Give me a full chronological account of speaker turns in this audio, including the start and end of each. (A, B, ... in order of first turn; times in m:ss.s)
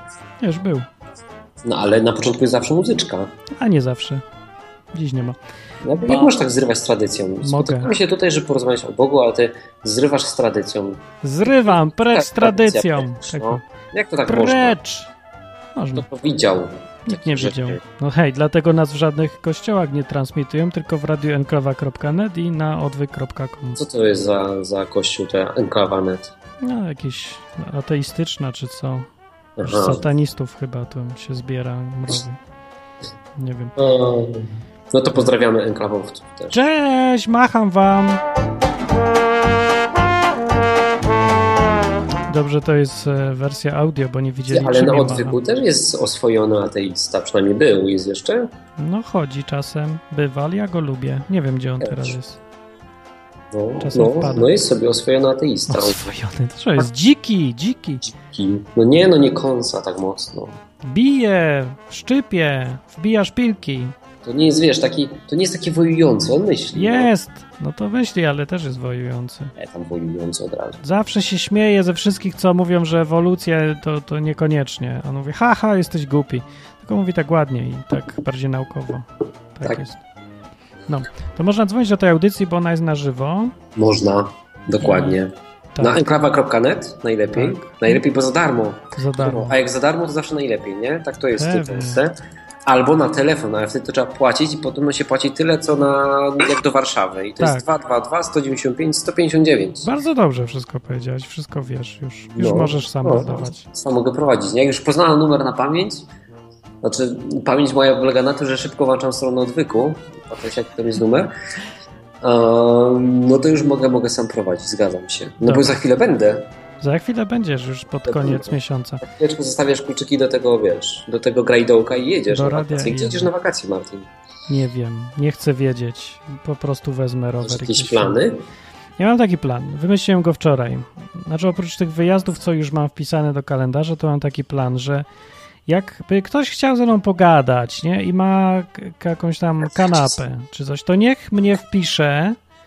0:00.4-0:00.9 A
0:01.6-0:03.3 B
0:03.6-0:04.2 A
0:04.9-0:05.4 A
0:05.8-0:14.8 B
0:07.4-0:07.9 A
0:11.2-0:13.6 A
0:14.3-0:15.1 A
0:15.8-0:16.1 A
0:15.9-0:17.8 B
0:17.0-0:23.8 A
0:23.8-0:26.3 B
0:26.6-0:29.1 A
0:29.6-0:30.0 B
0:29.6-0:32.4 A
0:33.4-0:33.8 A
0:33.8-0:36.6 B
0:36.5-0:38.2 A
0:42.3-0:45.4 A
0:44.5-0:48.5 B
0:48.8-0:52.4 A
0:51.8-0:52.2 B
0:53.5-0:56.1 B
0:53.8-0:54.6 A
0:55.7-0:58.1 A
0:58.2-1:00.6 B
1:00.8-1:03.9 A
1:04.2-1:07.1 B
1:06.7-1:09.5 A
1:09.6-1:10.8 B
1:10.8-1:20.0 A
1:20.9-1:23.5 A
1:23.8-1:39.9 B
1:24.8-1:25.2 A
1:25.8-1:26.0 A
1:27.3-1:28.0 A
1:28.9-1:29.6 A
1:31.3-1:32.0 A
1:37.4-1:37.7 A
1:39.8-1:43.7 A
1:42.4-1:46.1 B
1:46.8-1:51.3 B
1:52.2-1:56.5 B
1:55.4-1:55.8 A
1:56.8-1:59.0 A
1:58.0-2:04.1 B
2:02.3-2:03.3 A
2:04.5-2:08.2 A
2:07.4-2:08.4 B
2:09.0-2:15.0 A
2:15.7-2:22.4 A